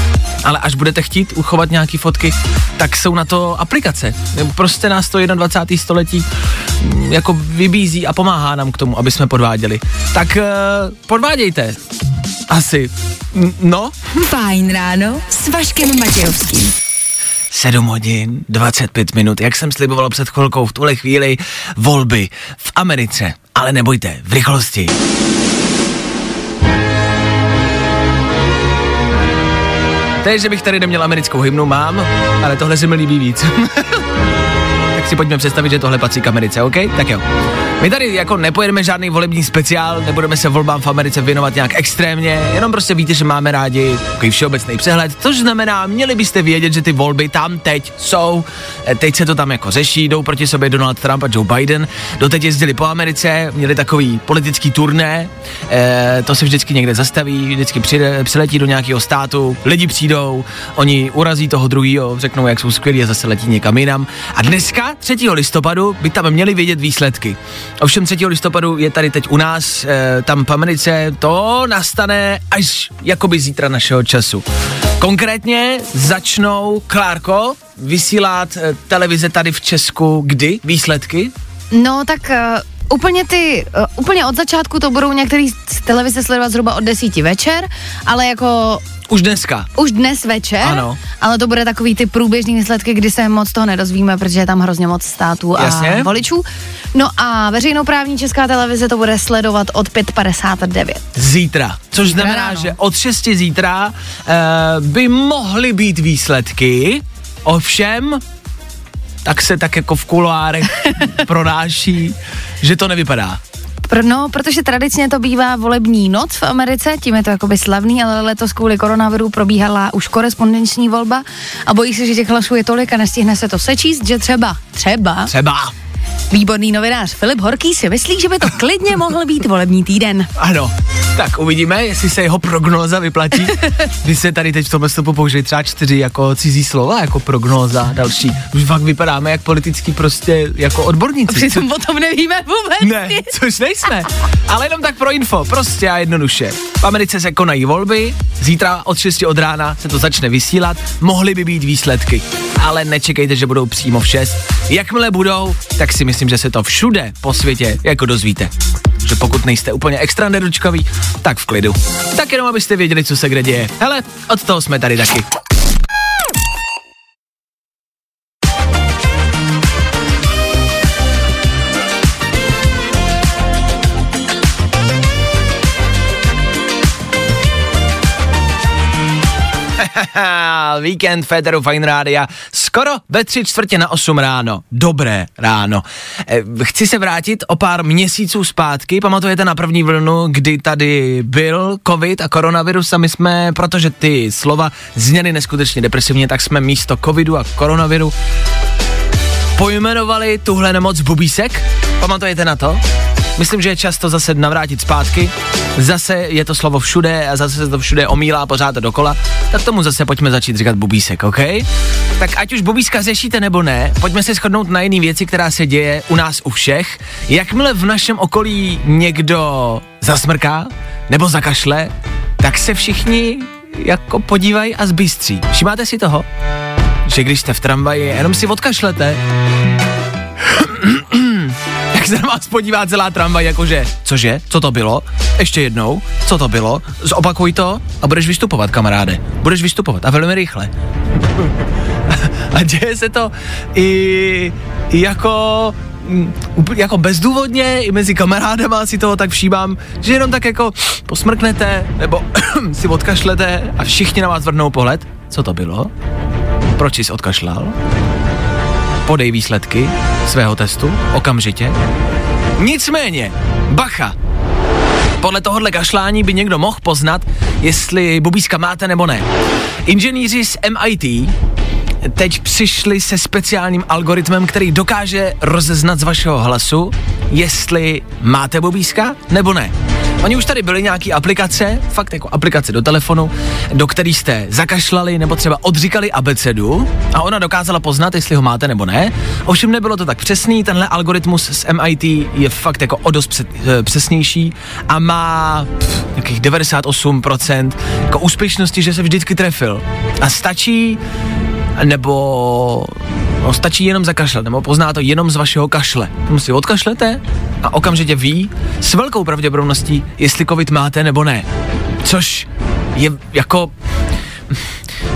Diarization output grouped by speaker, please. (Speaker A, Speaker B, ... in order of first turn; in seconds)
Speaker A: 0.4-11.8, 12.5-14.2, 17.5-25.0, 30.2-34.0, 34.9-37.2, 37.8-74.5, 75.0-81.3, 89.1-89.7, 90.6-91.0, 95.5-96.1, 101.1-108.2, 109.2-113.4, 125.3-125.7, 130.3-141.7, 142.8-165.2, 179.8-198.1, 199.6-202.8, 203.4-226.3, 227.1-229.2, 230.4-241.5, 242.1-255.9, 256.7-257.8, 259.0-261.7, 262.6-264.1, 265.2-269.2, 269.8-271.3, 272.0-301.0, 301.8-311.5, 312.0-313.7
Speaker B: 14.2-16.7
Speaker C: 81.7-88.8, 89.8-101.1, 102.0-102.8, 113.9-125.3, 126.3-130.3, 141.3-143.3